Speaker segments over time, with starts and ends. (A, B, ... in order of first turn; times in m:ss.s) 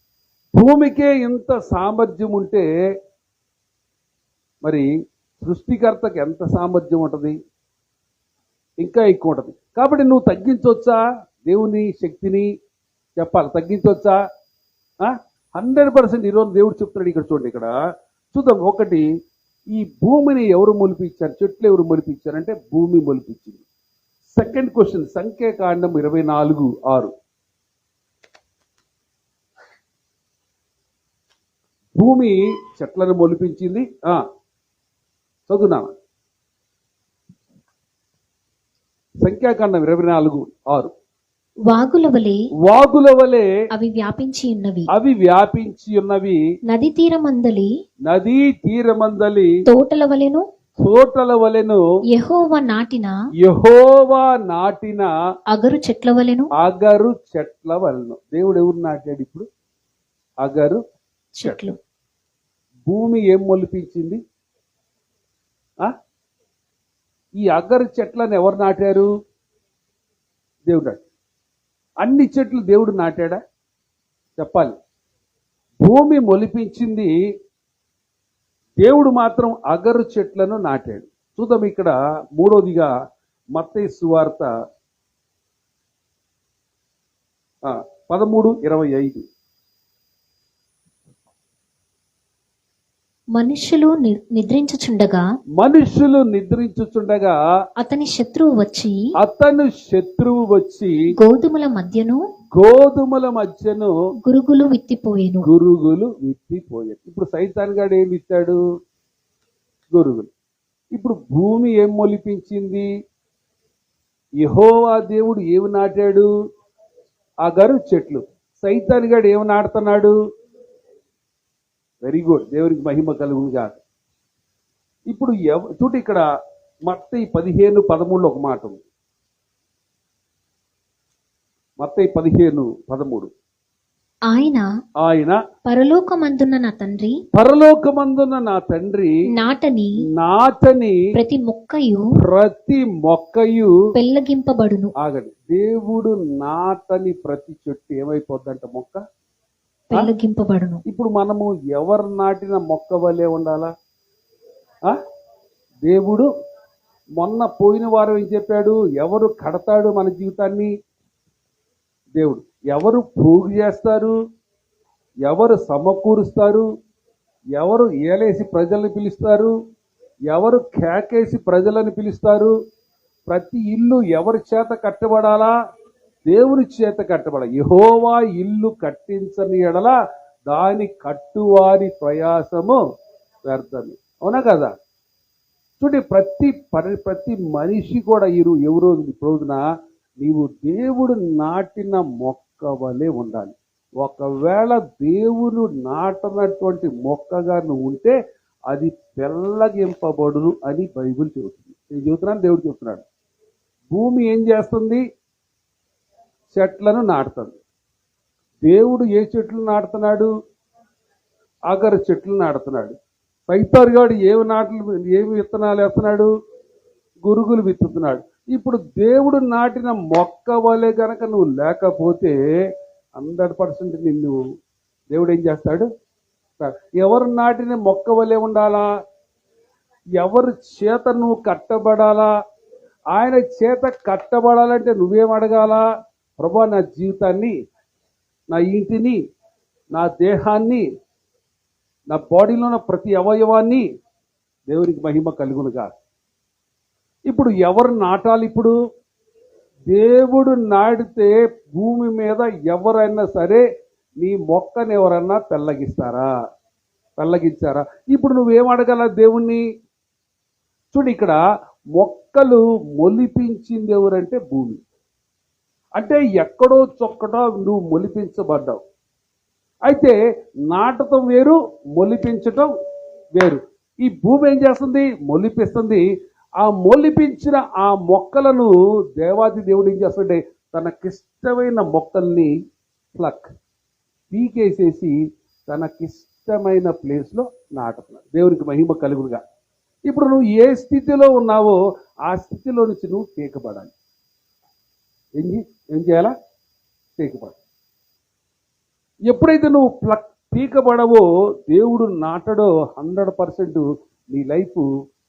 0:00.5-0:02.6 A
0:05.4-0:07.4 A
0:08.8-0:12.5 A
0:13.2-0:14.2 A
0:15.0-0:17.7 A
0:18.3-0:19.0 A
0:19.7-0:23.6 A
0:24.3-0:27.1 A
0:32.0-0:34.2 A
0:35.5-0:35.9 A
0:39.2-0:40.9 A
0:41.7-0:42.4 B
0:42.6-0:43.5 A
0:43.7-0:44.9 B
0:44.9-0:46.4 A
0:46.7-0:47.7 B
0:48.0-0:49.5 A
0:49.7-0:50.4 B
0:50.8-0:51.8 A
0:52.1-0:53.2 B
0:53.4-0:55.1 A
0:55.5-0:56.5 B
0:56.6-0:59.5 A
1:00.4-1:00.8 A
1:01.4-1:01.8 B
1:02.8-1:04.2 A
1:07.4-1:09.1 A
1:10.7-1:11.0 A
1:12.0-1:13.4 A
1:14.4-1:14.7 A
1:15.8-1:17.1 A
1:18.8-1:22.9 A
1:23.5-1:24.5 A
1:27.6-1:29.2 A
1:33.3-1:35.2 B
1:35.6-1:37.4 A
1:37.8-1:39.0 B
1:39.2-1:40.9 A
1:41.2-1:42.2 B
1:42.5-1:43.9 A
1:44.2-1:45.5 B
1:45.4-1:48.6 A
1:49.9-1:50.3 A
1:50.9-1:52.9 A
1:54.4-1:56.3 A
1:57.4-2:00.1 A
2:02.0-2:03.8 A
2:05.1-2:06.2 A
2:06.9-2:08.8 A
2:11.8-2:13.3 A
2:14.3-2:14.7 B
2:15.0-2:15.4 A
2:15.6-2:17.2 B
2:17.3-2:19.1 A
2:19.4-2:19.9 B
2:20.1-2:21.0 A
2:21.1-2:22.1 B
2:22.2-2:23.7 A
2:23.9-2:24.9 B
2:25.0-2:29.0 A
2:29.9-2:30.8 B
2:30.9-2:33.7 A
2:35.8-2:36.3 A
2:37.2-2:40.7 A
2:42.1-2:44.1 A
2:45.2-2:46.6 A
2:47.6-2:49.5 A
2:50.3-2:52.5 A
2:53.3-2:55.5 A
2:56.3-2:59.9 A
3:00.5-3:02.8 A
3:03.4-3:04.7 A
3:05.8-3:09.6 A
3:10.2-3:18.1 A
3:18.7-3:23.0 A
3:23.9-3:25.0 A
3:26.5-3:27.6 A
3:28.6-3:30.3 A
3:31.7-3:33.0 A
3:33.5-3:36.3 A
3:37.2-3:42.4 A
3:43.2-3:44.4 A
3:45.1-3:45.9 A
3:46.6-3:48.9 A
3:50.2-3:52.3 A
3:53.1-3:55.8 A
3:56.4-3:57.5 A
3:58.5-3:59.2 A
3:59.9-4:00.8 A
4:02.1-4:03.8 A
4:04.7-4:05.9 A
4:07.3-4:08.7 A
4:09.9-4:13.6 A
4:14.2-4:16.3 A
4:17.2-4:19.6 A
4:20.9-4:21.4 A
4:21.9-4:24.8 A
4:26.0-4:28.8 A
4:29.9-4:30.2 A
4:30.7-4:32.7 A
4:33.3-4:36.0 A
4:36.6-4:42.5 A
4:43.1-4:43.5 A
4:44.3-4:45.1 A
4:45.7-4:49.4 A
4:50.1-4:53.9 A
4:55.4-4:56.3 A
4:57.2-4:57.6 A
4:59.3-5:04.9 A